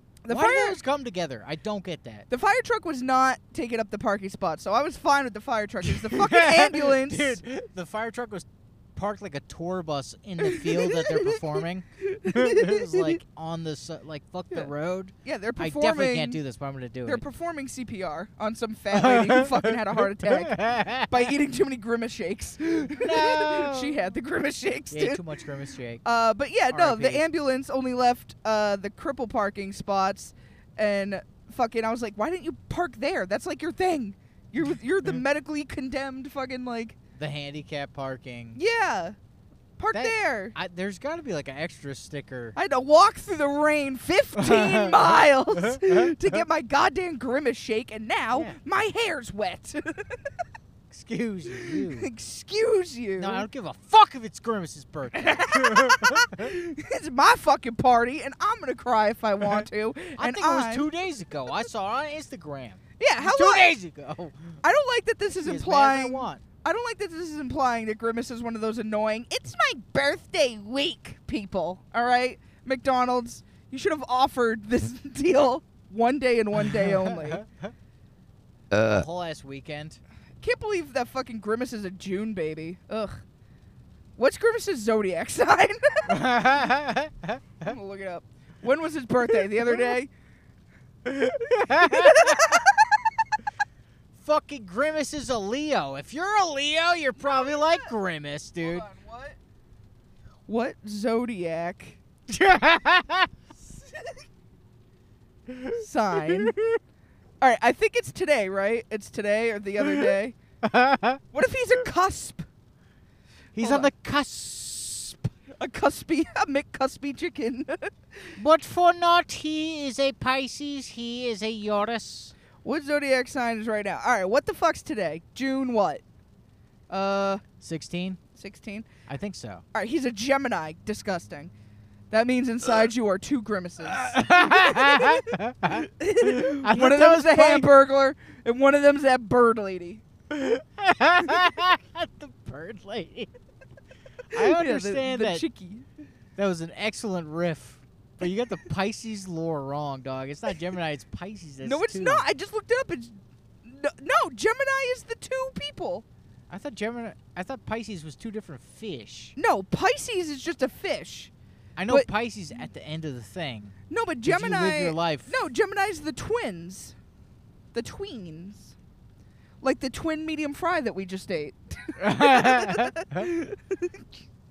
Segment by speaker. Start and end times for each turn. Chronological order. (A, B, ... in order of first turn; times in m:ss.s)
0:00.2-0:00.8 A
0:00.3-0:02.3 B
0:02.3-0:07.4 A
0:05.8-0:17.2 B
0:10.4-0:13.2 A
0:15.2-0:16.4 A
0:17.1-0:25.2 A
0:19.0-0:21.4 B
0:23.0-0:24.0 B
0:24.9-0:26.0 B
0:26.0-0:37.0 A
0:26.7-0:27.3 B
0:37.2-0:38.6 B
0:38.6-0:39.2 A
0:39.8-0:40.6 A
0:39.9-0:42.6 B
0:42.6-0:50.2 A
0:44.4-0:46.4 B
0:50.9-0:52.1 B
0:51.6-0:53.5 A
0:53.2-0:56.5 B
0:55.1-1:00.9 A
0:59.4-1:04.6 B
1:03.0-1:03.8 A
1:04.6-1:17.4 A
1:05.4-1:06.4 B
1:16.6-1:17.7 B
1:18.7-1:20.0 B
1:20.4-1:23.2 A
1:24.2-1:26.3 A
1:26.1-1:27.7 B
1:27.6-1:30.1 A
1:29.3-1:30.0 B
1:31.1-1:32.6 B
1:31.6-1:32.9 A
1:34.2-1:38.9 B
1:37.2-1:38.0 A
1:38.6-1:39.4 A
1:40.5-1:42.0 A
1:42.3-1:43.3 B
1:43.6-1:44.2 A
1:45.5-1:46.8 B
1:45.7-1:46.5 A
1:47.4-1:50.4 A
1:49.8-1:50.1 B
1:50.6-1:51.2 B
1:51.3-1:52.5 A
1:53.6-1:55.3 B
1:53.6-1:53.9 A
1:55.6-1:58.4 A
1:58.4-2:02.4 B
2:02.6-2:06.0 A
2:06.9-2:07.4 A
2:07.6-2:08.2 B
2:08.4-2:08.9 A
2:09.1-2:09.6 B
2:09.7-2:11.5 A
2:12.1-2:20.0 A
2:13.9-2:17.7 B
2:20.3-2:23.3 B
2:24.3-2:25.4 B
2:24.4-2:25.9 A
2:26.4-2:32.2 B
2:31.6-2:36.1 A
2:36.5-2:39.4 B
2:39.4-2:41.3 A
2:41.8-2:45.4 B
2:43.9-2:47.0 A
2:47.7-2:48.8 A
2:49.6-2:54.1 A
2:52.0-2:53.3 B